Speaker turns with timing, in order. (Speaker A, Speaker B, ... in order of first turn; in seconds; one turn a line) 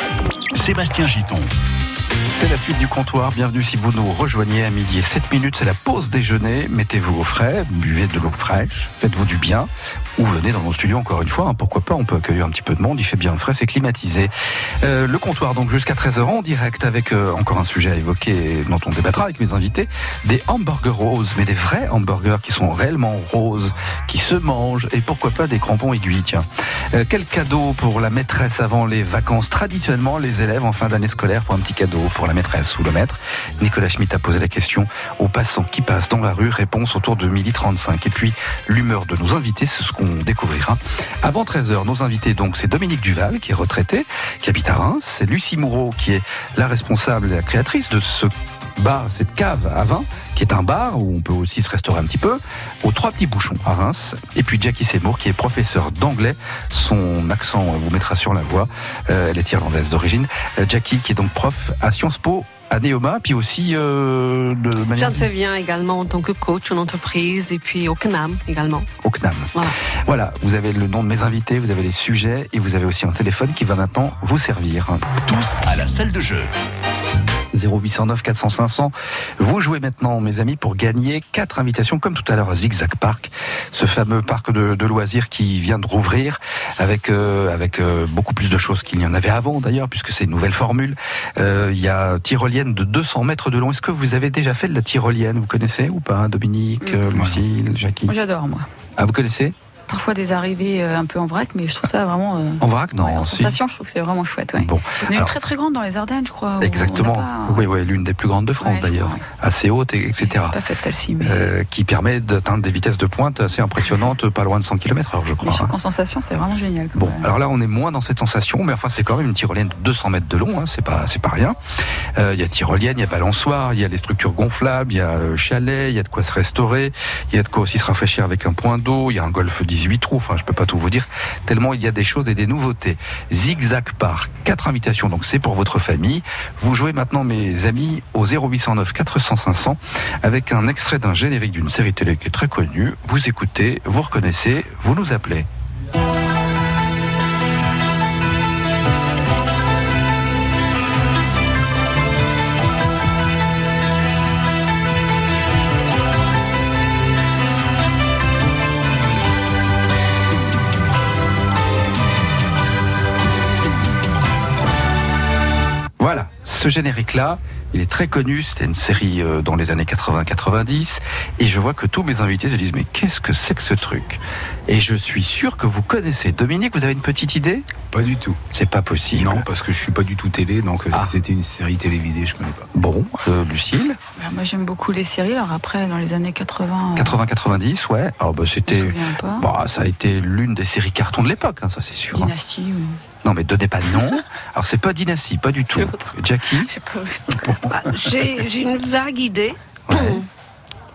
Speaker A: 0.5-1.5
Speaker B: 2.3-65.3
Speaker C: 64.9-68.9
Speaker B: 69.0-75.1
Speaker A: 75.2-76.5
Speaker B: 77.5-98.1
Speaker D: 97.1-97.4
Speaker E: 98.1-98.7
Speaker B: 99.0-99.5
Speaker E: 99.9-107.6
Speaker B: 102.6-103.6
Speaker B: 104.6-105.3
Speaker B: 106.6-110.6
Speaker E: 108.6-109.2
Speaker E: 110.2-111.5
Speaker B: 111.2-115.7
Speaker E: 115.4-117.3
Speaker B: 117.0-121.6
Speaker B: 122.2-145.5
Speaker B: 166.0-177.7
Speaker D: 177.9-178.4
Speaker B: 178.5-179.4
Speaker D: 179.1-182.7
Speaker B: 182.7-184.0
Speaker E: 184.2-187.2
Speaker B: 187.0-192.3
Speaker E: 188.7-189.4
Speaker E: 192.1-193.0
Speaker B: 193.2-196.7
Speaker C: 195.7-196.0
Speaker E: 196.6-197.6
Speaker C: 197.7-200.2
Speaker B: 199.9-200.2